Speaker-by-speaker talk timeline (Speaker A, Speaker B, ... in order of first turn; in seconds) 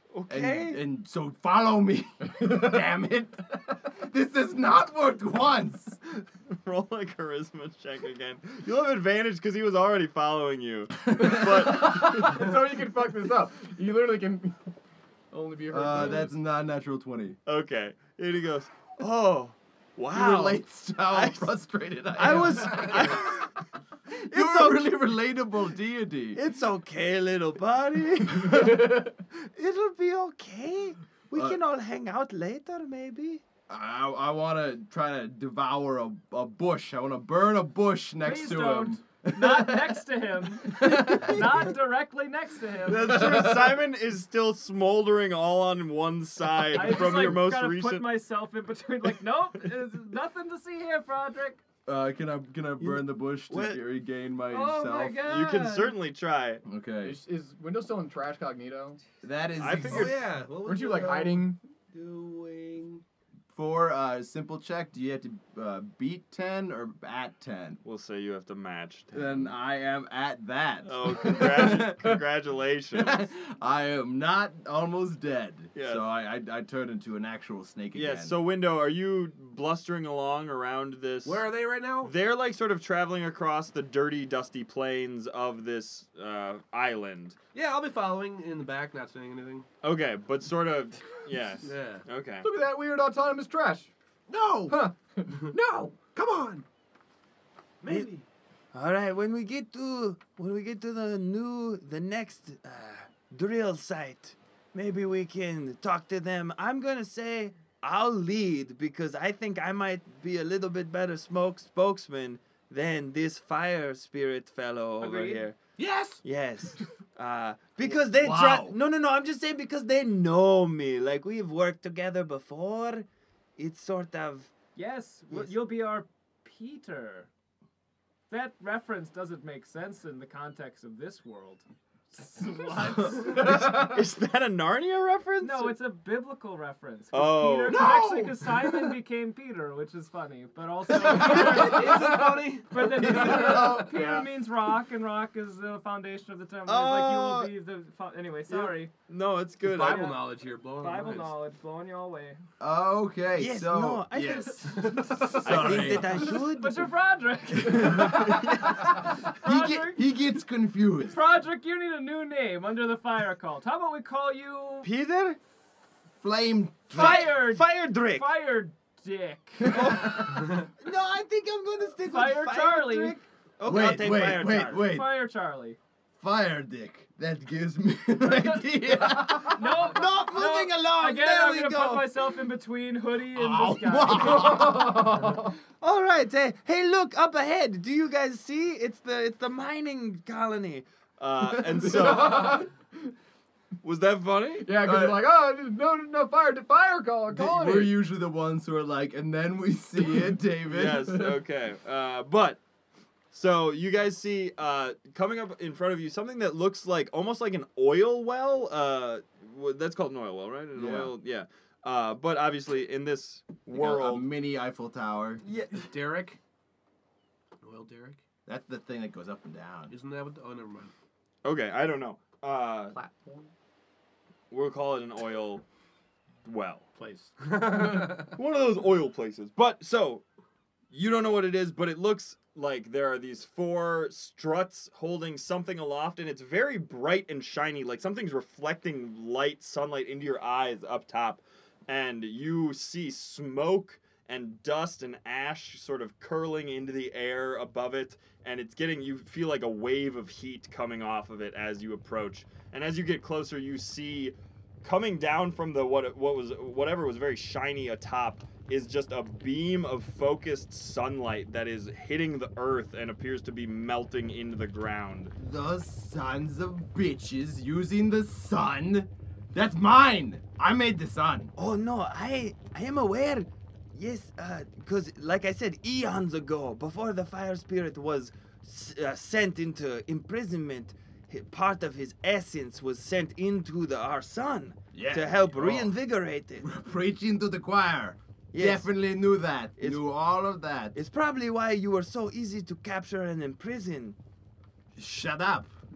Speaker A: 0.1-0.8, 6.2-12.5, 17.5-21.5, 22.1-23.5, 24.1-24.9, 26.4-33.4, 42.9-48.1, 52.8-53.8, 55.2-56.6, 59.6-60.2, 67.8-69.5, 70.8-73.3, 75.8-76.1, 77.9-81.5, 82.0-87.4, 89.8-92.5, 98.7-115.6, 116.2-123.1, 123.6-124.5, 133.1-135.8, 137.1-137.9, 146.7-147.5, 148.5-150.2, 153.3-156.9, 157.6-158.8, 164.8-165.4, 166.9-168.3, 169.7-174.9, 179.6-182.2, 185.8-192.7, 193.8-194.9, 200.7-202.6, 203.3-214.3, 215.4-215.8, 221.4-223.0, 224.5-225.6, 226.4-226.9, 228.2-230.2, 230.9-265.3, 271.6-286.7, 288.5-288.9, 289.8-290.0, 290.9-294.2
Speaker B: 0.3-6.0, 15.7-17.4, 20.1-23.5, 24.1-26.4, 31.3-31.6, 33.7-40.0, 40.7-41.6, 51.9-55.3, 56.6-57.2, 59.2-60.2, 63.5-67.8, 69.1-72.2, 72.9-78.4, 118.2-118.8, 132.8-133.2, 143.0-144.2, 152.6-156.4, 157.6-161.2, 166.2-167.3, 169.7-170.2, 173.6-175.1, 176.2-179.8, 183.3-185.3, 194.8-195.2, 197.3-201.2, 210.8-211.1, 213.7-215.4, 218.5-219.9, 265.4-271.5, 284.9-285.9, 286.6-291.0, 294.9-295.7
Speaker C: 11.2-14.7, 15.3-16.3, 57.0-59.0, 60.5-61.6, 92.4-93.9, 94.7-95.7, 133.3-134.0, 142.0-142.3, 143.4-144.3, 184.5-185.5, 191.7-192.7, 194.6-197.9, 222.9-223.5
Speaker D: 38.2-43.3, 46.7-51.6, 54.5-56.0, 115.0-115.5, 124.8-127.3, 128.3-133.6, 135.4-148.9, 149.8-152.4, 156.2-160.1, 161.1-164.9, 166.9-170.4, 172.0-173.2, 174.8-175.8, 179.3-184.8
Speaker E: 59.9-63.0, 81.2-82.1, 87.5-89.7, 91.6-92.0, 94.3-96.7, 97.8-98.3, 115.8-116.2, 137.7-138.3, 141.0-143.8, 149.6-151.4, 154.7-155.7, 215.7-216.4, 217.6-218.2, 219.9-220.9, 227.0-228.4